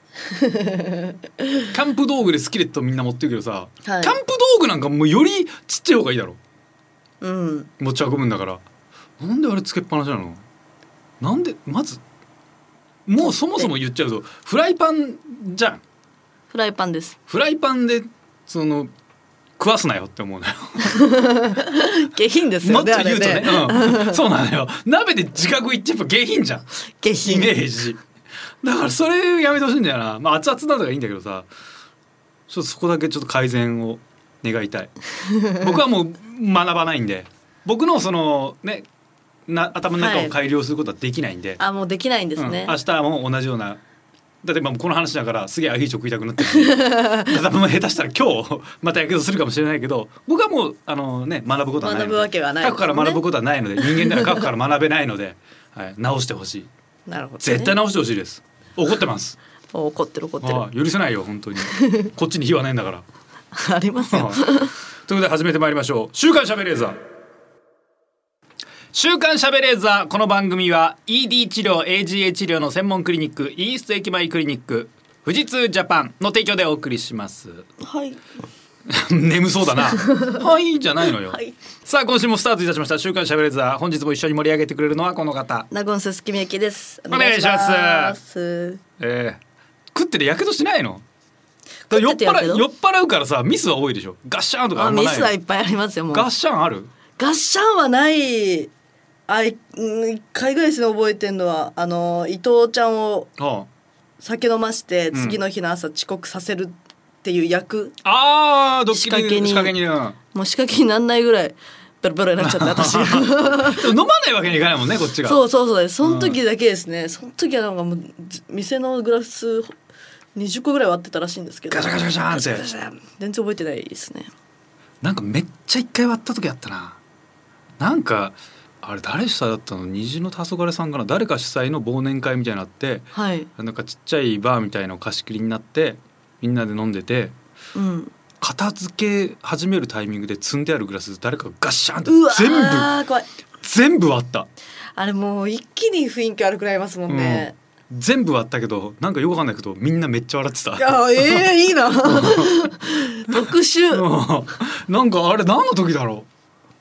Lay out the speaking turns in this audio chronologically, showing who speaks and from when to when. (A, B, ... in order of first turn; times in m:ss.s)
0:00.3-0:01.6 A
0:01.7-0:06.4 B
0:03.8-0:04.2 A
0:07.2-0:07.7 A
0:07.8-0:08.6 B
0:09.2-0:10.4 B
0:11.2-0:12.0 B
0:13.0-0:15.8 B
0:16.5-0:17.2 A
0:17.3-0:18.9 B
0:19.6-0:21.0 B
0:20.8-0:24.2 A
0:22.6-0:26.6 B
0:27.0-0:27.6 A
0:27.2-0:28.0 B
0:28.6-0:31.5 B
0:32.5-0:34.9 B
0:35.2-0:35.7 A
0:35.6-0:38.8 B
0:39.5-0:41.6 B
0:40.0-0:40.3 A
0:41.6-0:42.8 A
0:42.4-0:43.8 B
0:44.4-0:56.7 B
0:46.4-0:47.4 A
0:51.8-0:53.2 A
0:53.8-0:54.4 A
0:57.1-0:57.8 A
0:57.4-0:59.4 B
0:59.7-1:00.6 A
1:00.4-1:03.0 B
1:01.7-1:02.1 A
1:03.5-1:04.7 A
1:04.0-1:07.0 B
1:08.9-1:17.6 B
1:17.8-1:18.2 A
1:18.9-1:25.7 B
1:20.1-1:20.4 A
1:21.2-1:21.5 A
1:25.7-1:28.8 A
1:27.1-1:28.2 B
1:29.0-1:29.4 B
1:29.9-1:31.0 B
1:31.9-1:32.6 A
1:31.9-1:35.3 B
1:34.7-1:36.3 A
1:36.1-1:36.9 B
1:37.2-1:38.7 A
1:39.3-1:43.3 A
1:43.4-1:43.7 B
1:44.2-1:48.0 A
1:45.1-1:45.4 B
1:48.0-1:50.2 B
1:48.9-1:49.8 A
1:50.3-1:53.9 A
1:52.4-1:55.4 B
1:55.2-1:59.7 A
1:56.0-1:56.4 B
2:00.3-2:04.3 A
2:01.7-2:02.7 B
2:05.0-2:07.0 B
2:07.8-2:17.3 B
2:13.1-2:13.5 A
2:17.7-2:18.1 A
2:18.4-2:22.9 B
2:22.1-2:23.3 A
2:23.6-2:24.5 B
2:25.0-2:27.5 A
2:27.1-2:31.5 B
2:30.8-2:34.0 A
2:32.0-2:32.6 B
2:33.3-2:36.3 B